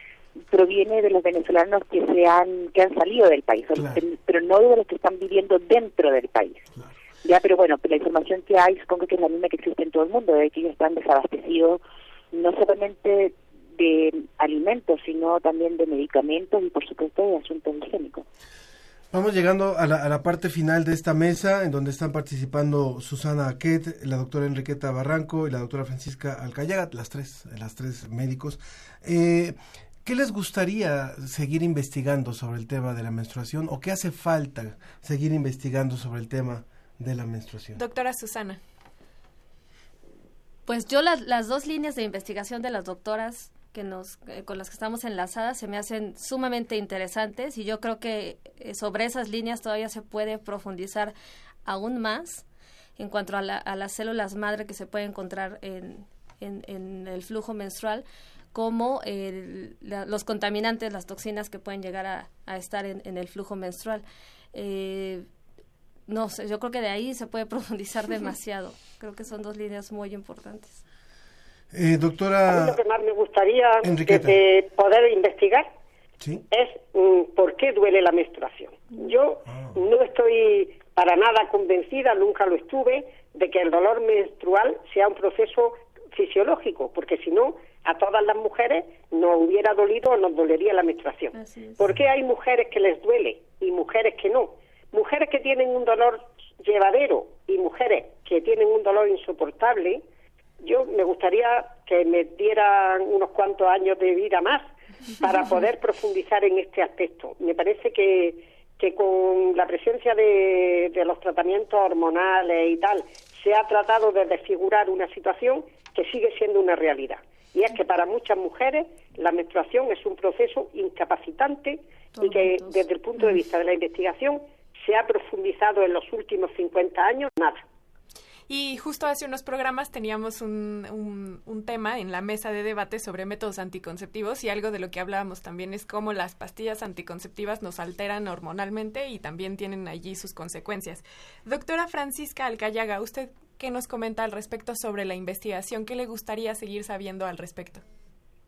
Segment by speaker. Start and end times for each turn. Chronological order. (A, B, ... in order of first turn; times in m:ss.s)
0:00.5-0:06.7 A
0:03.7-0:04.0 B
0:07.2-0:11.8 A
0:12.3-0:18.2 A
0:19.1-0:37.8 B
0:37.8-0:38.6 C
0:40.7-0:51.1 D
0:51.6-0:52.4 D
0:53.0-1:05.3 D
1:06.1-1:10.8 D
1:11.7-1:12.8 B
1:12.5-1:15.7 E
1:13.8-1:14.4 B
1:16.5-1:40.0 E
1:19.5-1:19.8 B
1:31.3-1:31.8 D
1:40.6-1:44.6 E
1:45.2-2:07.6 E
2:02.1-2:02.8 D
2:08.5-2:27.8 C